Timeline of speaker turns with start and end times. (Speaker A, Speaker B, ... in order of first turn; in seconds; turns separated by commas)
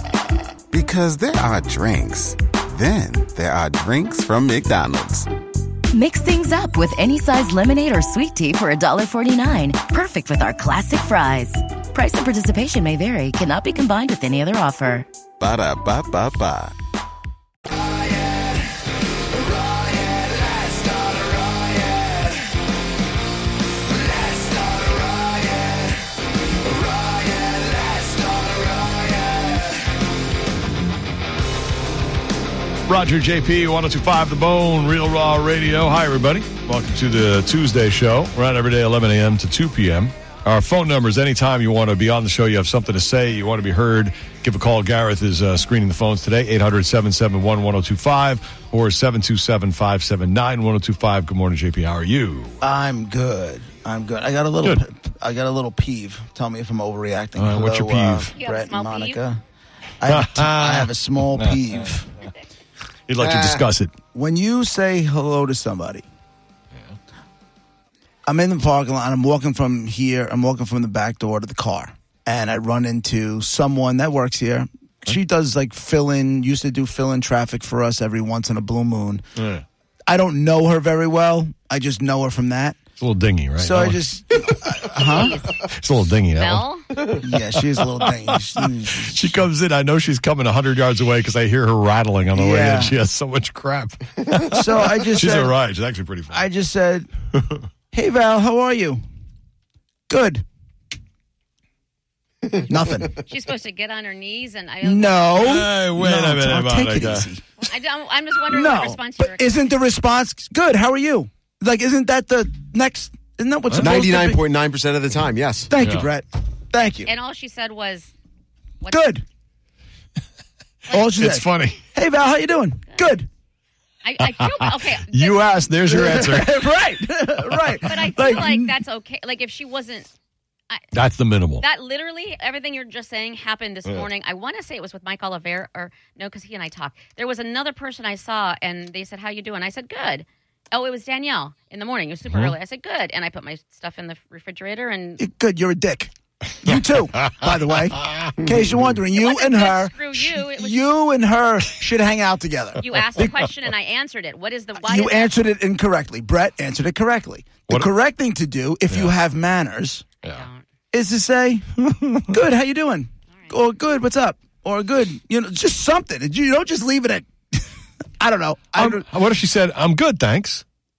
Speaker A: 0.7-5.3, Speaker B: 5.9-15.1, Speaker A: 15.4-16.8, Speaker C: 32.9-52.6, Speaker D: 52.6-59.4, Speaker C: 57.4-58.3, Speaker E: 58.3-59.2, Speaker D: 60.0-62.1, Speaker C: 60.1-61.8, Speaker C: 63.1-63.9, Speaker F: 63.2-63.6, Speaker D: 64.1-66.0, Speaker D: 68.2-79.2, Speaker C: 79.4-79.6, Speaker D: 80.1-82.8, Speaker C: 83.0-84.0, Speaker D: 83.6-85.4, Speaker E: 84.9-85.6, Speaker C: 85.6-86.7, Speaker E: 86.3-86.9, Speaker D: 87.2-89.4, Speaker C: 88.0-96.4, Speaker D: 92.3-92.9, Speaker D: 94.5-95.5, Speaker D: 96.3-97.1, Speaker C: 97.3-97.6, Speaker D: 97.9-99.0, Speaker D: 100.1-100.4, Speaker D: 102.7-103.2, Speaker E: 103.2-105.4, Speaker D: 104.8-107.4, Speaker C: 105.4-107.3, Speaker E: 107.6-109.7, Speaker D: 108.5-114.4, Speaker F: 113.8-115.7, Speaker D: 115.7-117.1, Speaker C: 115.8-116.1, Speaker E: 117.0-118.1, Speaker E: 118.8-119.1, Speaker D: 118.9-119.2, Speaker D: 120.9-123.3, Speaker C: 120.9-121.8, Speaker E: 124.0-125.7, Speaker C: 124.2-126.7, Speaker D: 125.8-128.7, Speaker E: 127.8-130.1, Speaker C: 130.9-131.6, Speaker E: 131.6-145.2, Speaker C: 142.3-142.5, Speaker D: 145.2-152.8, Speaker F: 148.4-148.7, Speaker E: 149.1-150.8, Speaker E: 152.8-155.3, Speaker C: 152.9-153.5, Speaker D: 154.8-160.1, Speaker E: 160.2-160.6, Speaker D: 160.9-169.1, Speaker C: 162.0-162.3, Speaker C: 168.7-170.6